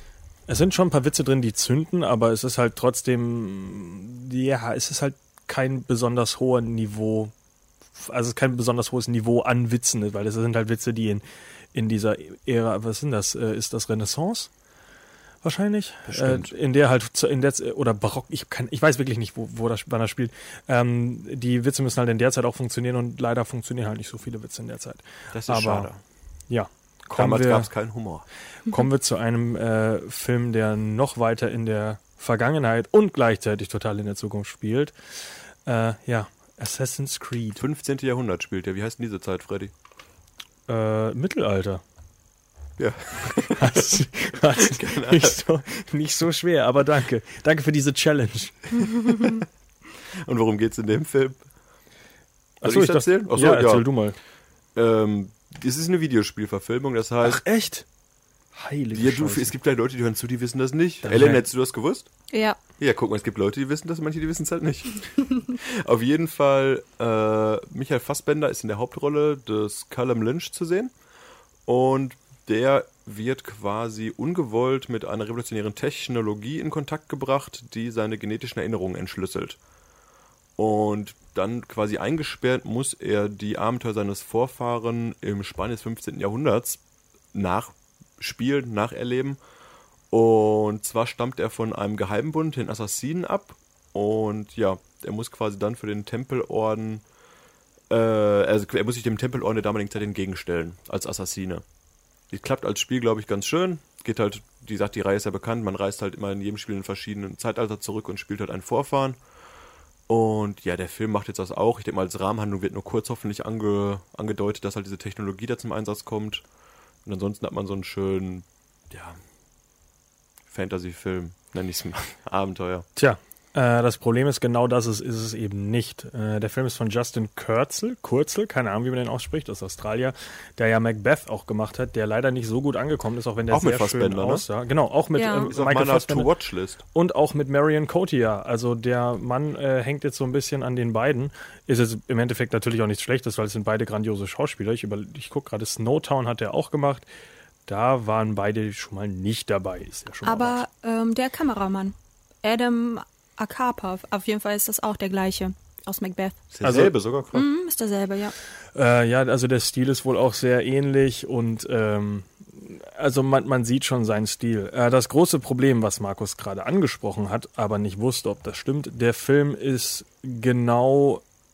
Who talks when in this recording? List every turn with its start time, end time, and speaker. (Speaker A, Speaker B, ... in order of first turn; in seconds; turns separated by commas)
Speaker A: 0.5-7.3, Speaker A: 8.0-14.5, Speaker A: 15.4-25.9, Speaker B: 16.1-16.5, Speaker B: 25.3-26.0, Speaker A: 26.5-27.7, Speaker B: 27.1-28.2, Speaker A: 28.7-34.9, Speaker A: 35.6-37.6, Speaker B: 37.6-39.7, Speaker A: 40.7-41.8, Speaker B: 42.8-43.9, Speaker A: 43.5-48.9, Speaker B: 44.5-45.4, Speaker B: 50.2-51.4, Speaker A: 52.6-54.1, Speaker B: 52.6-53.8, Speaker B: 54.7-57.4, Speaker A: 57.2-57.8, Speaker A: 58.5-59.5, Speaker B: 58.9-62.1, Speaker A: 61.0-61.4, Speaker C: 62.3-62.6, Speaker B: 62.8-70.9, Speaker B: 71.7-79.6, Speaker B: 80.6-86.8, Speaker B: 87.3-89.4, Speaker B: 90.1-97.0, Speaker B: 97.9-101.6, Speaker B: 102.3-109.2, Speaker B: 110.1-116.4, Speaker B: 117.0-119.2, Speaker B: 120.5-122.8, Speaker A: 123.0-136.3, Speaker B: 133.5-134.4, Speaker C: 135.1-135.5, Speaker B: 135.5-136.8, Speaker A: 136.9-147.1, Speaker A: 147.7-150.6, Speaker C: 150.2-156.4, Speaker B: 156.5-157.5, Speaker A: 156.6-156.9, Speaker C: 157.3-158.3, Speaker A: 158.7-171.2